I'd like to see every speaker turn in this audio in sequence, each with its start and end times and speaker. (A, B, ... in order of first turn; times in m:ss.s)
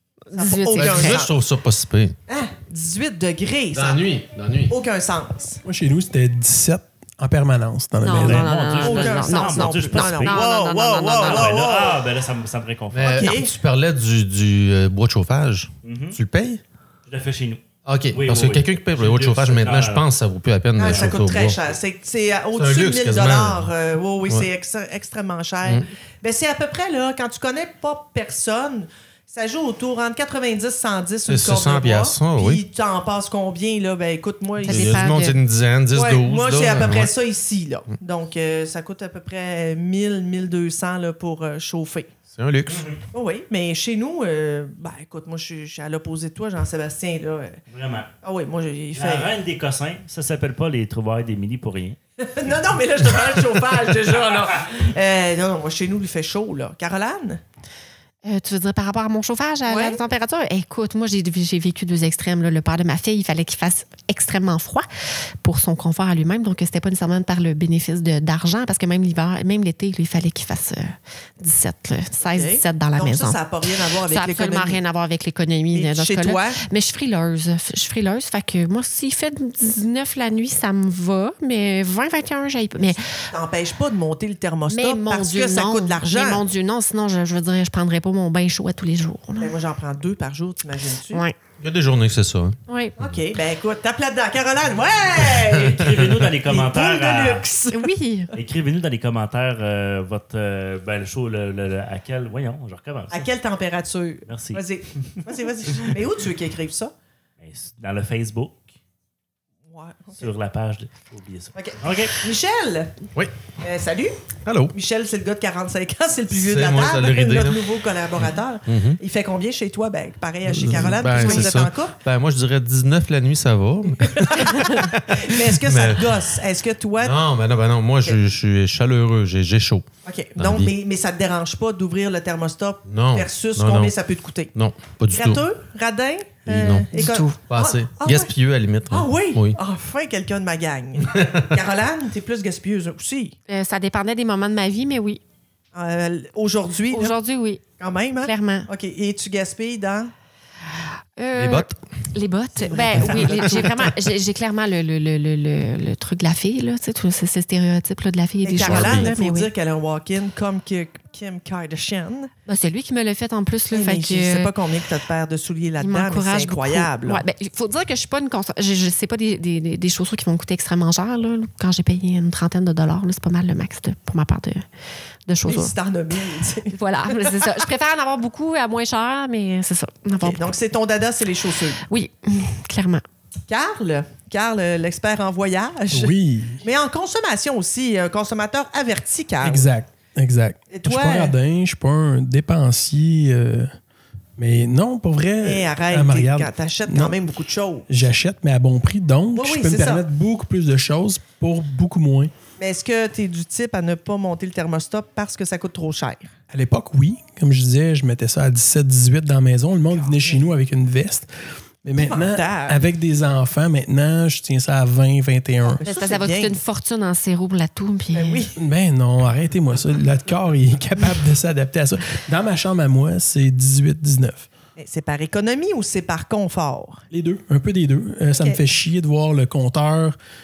0:00.3-0:01.2 A
0:00.3-0:01.4 B
0:00.7-0:02.2 C
0:02.3-0:04.0 B
0:03.7-0:04.8 C
0:04.7-0:05.6 B
0:05.6-0:08.5 D
0:08.0-0:11.6 A
0:08.1-0:10.4 E
0:08.8-0:12.0 B
0:11.0-0:13.3 E
0:12.9-0:16.6 C
0:13.0-0:13.6 B
0:15.8-0:16.2 E
0:17.1-0:20.0 E
0:17.8-0:21.6 C
0:20.8-0:35.1 B
0:20.8-0:21.1 E
0:22.5-0:23.7 C
0:31.3-0:32.6 C
0:34.6-0:35.4 A
0:34.7-0:37.1 C
0:35.9-0:42.2 B
0:42.3-0:42.9 C
0:42.7-0:43.0 E
0:43.1-0:47.6 B
0:47.7-0:48.1 E
0:48.2-0:49.3 B
0:48.9-0:52.0 E
0:52.2-0:57.4 B
0:53.0-0:53.5 E
0:58.2-1:04.9 A
0:59.6-1:00.0 B
1:05.4-1:13.4 A
1:12.2-1:14.8 B
1:14.1-1:23.3 A
1:15.7-1:16.6 B
1:22.8-1:26.4 B
1:24.7-1:29.6 A
1:29.4-1:31.2 B
1:31.1-1:31.4 A
1:31.6-1:33.1 C
1:32.7-1:32.9 A
1:33.0-1:35.8 B
1:35.5-1:37.4 E
1:36.3-1:37.9 B
1:37.7-1:38.3 A
1:38.3-1:43.3 E
1:43.1-1:46.9 B
1:44.3-1:45.9 E
1:47.4-1:48.6 E
1:49.7-1:50.3 B
1:50.2-1:52.2 E
1:51.5-1:53.0 B
1:53.6-2:02.0 B
1:54.4-1:54.7 C
1:56.3-1:57.7 C
1:58.7-1:59.0 C
2:00.4-2:06.3 C
2:01.2-2:01.6 A
2:04.1-2:07.2 B
2:07.0-2:09.8 C
2:10.0-2:14.5 B
2:10.4-2:10.7 C
2:12.8-2:13.9 C
2:14.5-2:15.4 C
2:15.1-2:18.3 B
2:16.4-2:16.9 C
2:16.9-2:17.4 A
2:17.4-2:19.6 C
2:18.9-2:23.4 B
2:21.1-2:21.4 C
2:23.5-2:25.2 A
2:25.7-2:27.1 B
2:26.9-2:27.6 A
2:27.8-2:30.1 B
2:28.2-2:28.7 A
2:31.2-2:39.5 A
2:31.3-2:31.7 C
2:32.6-2:33.7 B
2:33.0-2:33.7 C
2:38.4-2:42.3 B
2:38.6-2:39.1 C
2:42.5-2:44.5 A
2:43.7-2:47.2 B
2:45.8-2:54.6 A
2:55.3-2:55.7 A
2:55.5-2:57.5 B
2:56.7-3:00.4 A
3:00.2-3:01.8 B
3:01.9-3:03.0 A
3:03.5-3:09.7 B
3:05.9-3:06.6 D
3:09.4-3:13.7 D
3:10.7-3:11.3 B
3:14.4-3:17.2 D
3:15.4-3:17.9 B
3:17.9-3:22.3 D
3:19.3-3:20.0 B
3:22.6-3:26.3 B
3:26.5-3:31.3 D
3:29.9-3:30.4 B
3:31.8-3:35.8 D
3:32.0-3:32.8 B
3:35.6-3:36.6 B
3:35.8-3:38.4 A
3:38.1-3:38.6 B
3:38.6-3:44.5 D
3:44.8-3:47.0 B
3:47.1-3:50.2 D